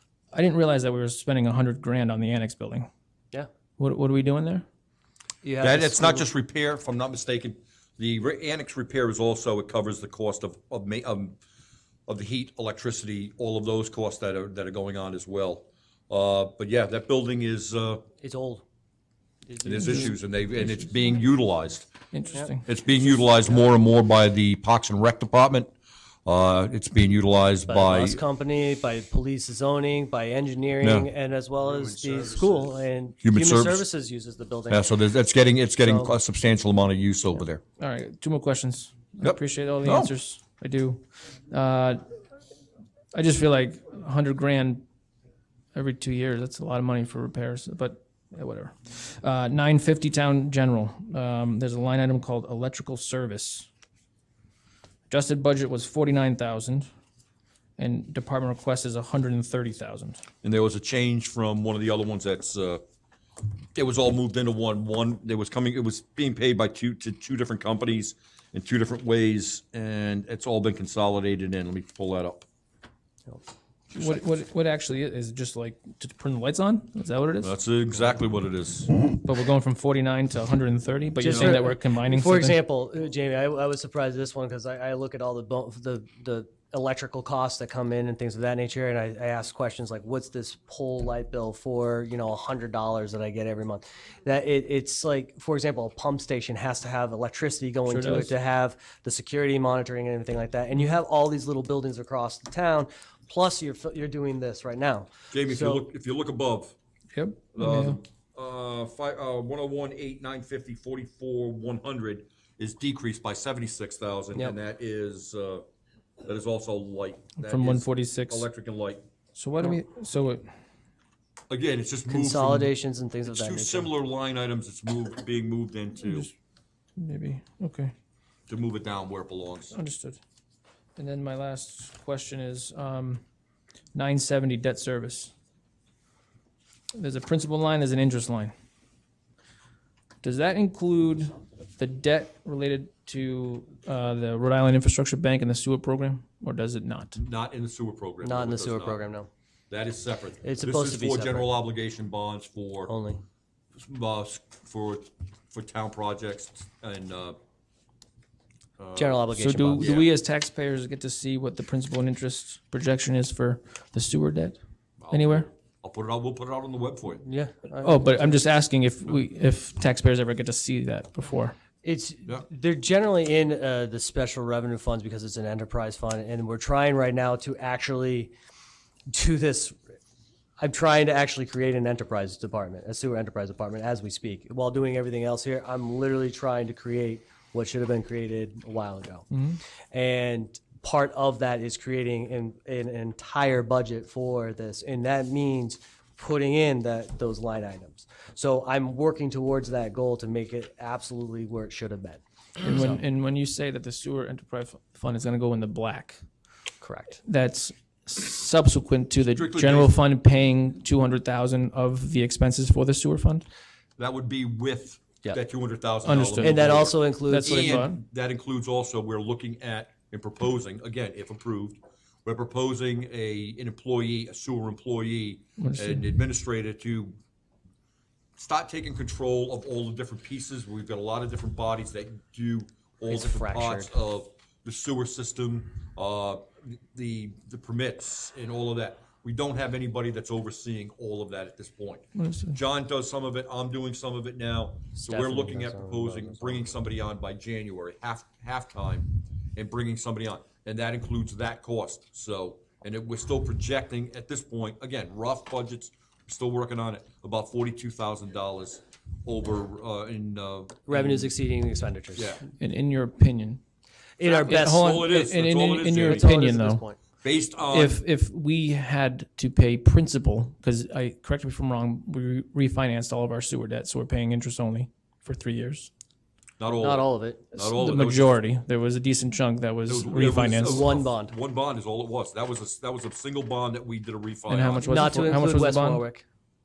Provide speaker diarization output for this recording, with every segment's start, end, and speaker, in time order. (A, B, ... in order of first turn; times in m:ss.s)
0:00.3-0:02.9 A
0:03.8-0:04.6 A
0:05.4-0:06.3 B
0:05.6-0:11.4 C
0:12.1-0:18.0 C
0:18.2-0:18.6 B
0:19.5-0:20.0 B
0:19.6-0:21.9 C
0:19.7-0:20.2 A
0:22.1-0:22.6 A
0:22.4-0:23.5 B
0:22.6-0:25.7 C
0:26.2-0:28.2 C
0:27.7-0:34.9 B
0:30.8-0:31.1 C
0:31.8-0:32.7 C
0:33.2-0:33.8 C
0:34.7-0:37.6 C
0:35.8-0:36.1 B
0:37.8-0:42.1 A
0:39.2-0:40.1 C
0:43.1-0:44.8 A
0:45.7-0:53.7 A
0:55.1-0:56.9 A
0:57.8-1:00.2 A
1:00.4-1:02.8 C
1:03.7-1:12.4 C
1:13.9-1:17.5 A
1:17.4-1:18.9 C
1:19.2-1:22.6 A
1:21.2-1:45.8 B
1:21.3-1:21.6 C
1:37.9-1:38.3 A
1:45.3-1:46.7 C
1:47.1-1:48.0 A
1:47.5-1:55.6 C
1:56.2-1:59.0 C
1:57.4-1:58.5 A
1:59.3-2:00.4 A
2:01.5-2:02.7 C
2:02.1-2:03.9 B
2:03.3-2:06.3 C
2:06.0-2:06.3 A
2:07.0-2:07.9 A
2:08.5-2:09.8 C
2:09.7-2:10.2 A
2:11.0-2:13.2 A
2:13.9-2:15.3 A
2:16.9-2:18.5 A
2:20.2-2:27.2 A
2:27.1-2:29.0 C
2:28.2-2:29.3 B
2:29.7-2:32.9 C
2:30.4-2:31.5 B
2:32.9-2:33.2 B
2:33.8-2:37.4 C
2:38.8-2:40.1 C
2:39.0-2:40.0 B
2:39.4-2:44.6 A
2:45.0-2:47.2 C
2:45.1-2:45.5 A
2:47.2-2:48.2 B
2:47.8-2:51.5 A
2:51.8-2:58.3 B
2:59.1-2:59.8 B
3:00.6-3:09.3 B
3:09.3-3:09.6 A
3:09.9-3:23.0 B
3:22.6-3:26.2 A
3:26.8-3:27.2 B
3:27.2-3:33.4 A
3:29.2-3:30.0 C
3:34.0-3:47.1 C
3:36.0-3:38.0 A
3:36.4-3:37.9 B
3:45.6-3:46.2 A
3:48.4-4:21.3 C
3:53.1-3:53.9 B
4:02.1-4:02.6 A
4:05.0-4:06.7 B
4:20.8-4:22.4 B
4:22.2-4:22.4 C
4:22.6-4:23.6 A
4:24.2-4:25.0 B
4:24.2-4:26.3 C
4:24.2-4:26.8 A
4:26.0-4:27.0 B
4:27.2-4:28.0 C
4:27.7-4:35.9 A
4:36.6-4:38.4 C
4:36.8-4:37.5 B
4:37.5-4:40.9 A
4:39.9-4:45.2 C
4:40.5-4:41.3 B
4:44.5-4:46.0 A
4:44.9-4:46.2 B